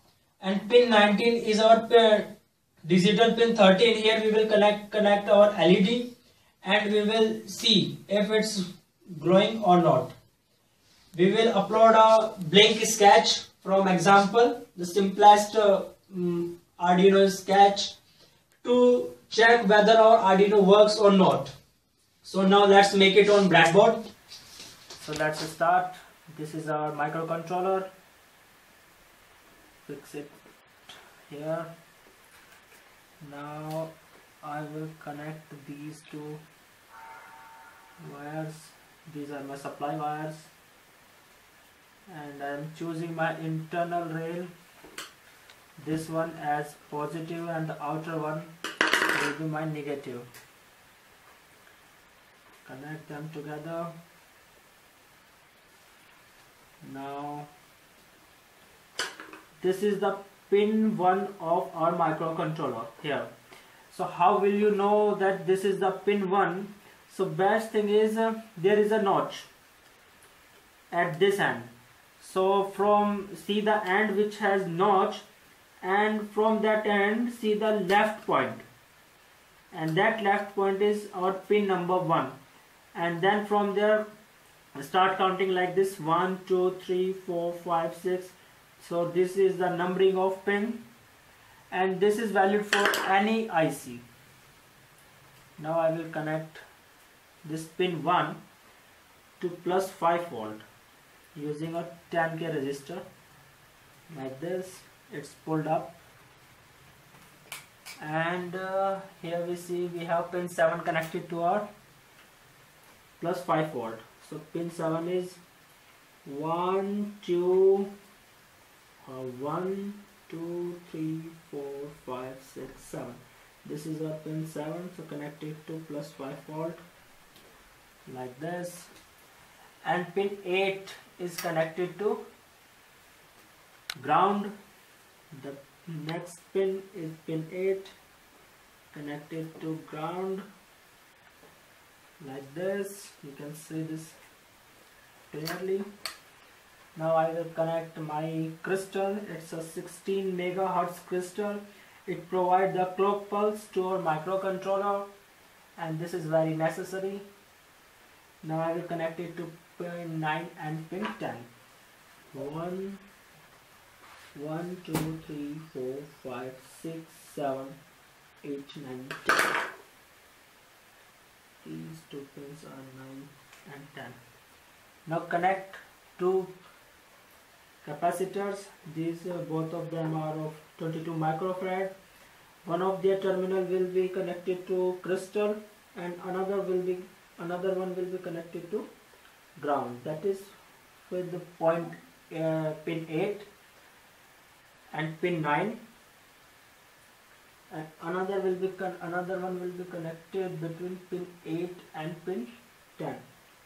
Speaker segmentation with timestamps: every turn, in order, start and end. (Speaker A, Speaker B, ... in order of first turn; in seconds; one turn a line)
Speaker A: 0.4-2.3
Speaker A: 2.8-6.1
Speaker A: 6.6-10.1
Speaker A: 11.1-17.9
Speaker A: 18.6-21.5
Speaker A: 22.2-24.0
Speaker A: 25.0-27.9
Speaker A: 29.9-30.4
Speaker A: 31.3-31.7
Speaker A: 33.2-36.4
Speaker A: 38.0-40.5
Speaker A: 42.1-44.5
Speaker A: 45.8-48.5
Speaker A: 49.1-50.3
Speaker A: 52.6-53.9
Speaker A: 56.8-57.5
Speaker A: 59.6-63.3
Speaker A: 63.9-69.5
Speaker A: 70.9-75.2
Speaker A: 75.8-78.6
Speaker A: 79.7-82.4
Speaker A: 82.9-84.1
Speaker A: 84.7-90.8
Speaker A: 91.7-94.0
Speaker A: 95.6-96.6
Speaker A: 97.4-98.4
Speaker A: 99.4-100.6
Speaker A: 101.3-103.0
Speaker A: 104.1-106.0
Speaker A: 108.0-111.7
Speaker A: 113.2-115.4
Speaker A: 116.2-117.9
Speaker A: 119.0-126.8
Speaker A: 128.1-128.9
Speaker A: 129.8-132.2
Speaker A: 134.0-134.5
Speaker A: 135.3-137.9
Speaker A: 138.9-140.4
Speaker A: 142.2-144.2
Speaker A: 145.3-145.8
Speaker A: 146.9-155.1
Speaker A: 155.8-157.2
Speaker A: 158.4-161.5
Speaker A: 162.3-163.0
Speaker A: 164.3-167.8
Speaker A: 168.4-169.6
Speaker A: 171.6-174.2
Speaker A: 175.1-176.5
Speaker A: 177.8-181.9
Speaker A: 182.6-188.9
Speaker A: 189.6-190.5
Speaker A: 191.1-193.5
Speaker A: 194.9-195.8
Speaker A: 197.7-203.2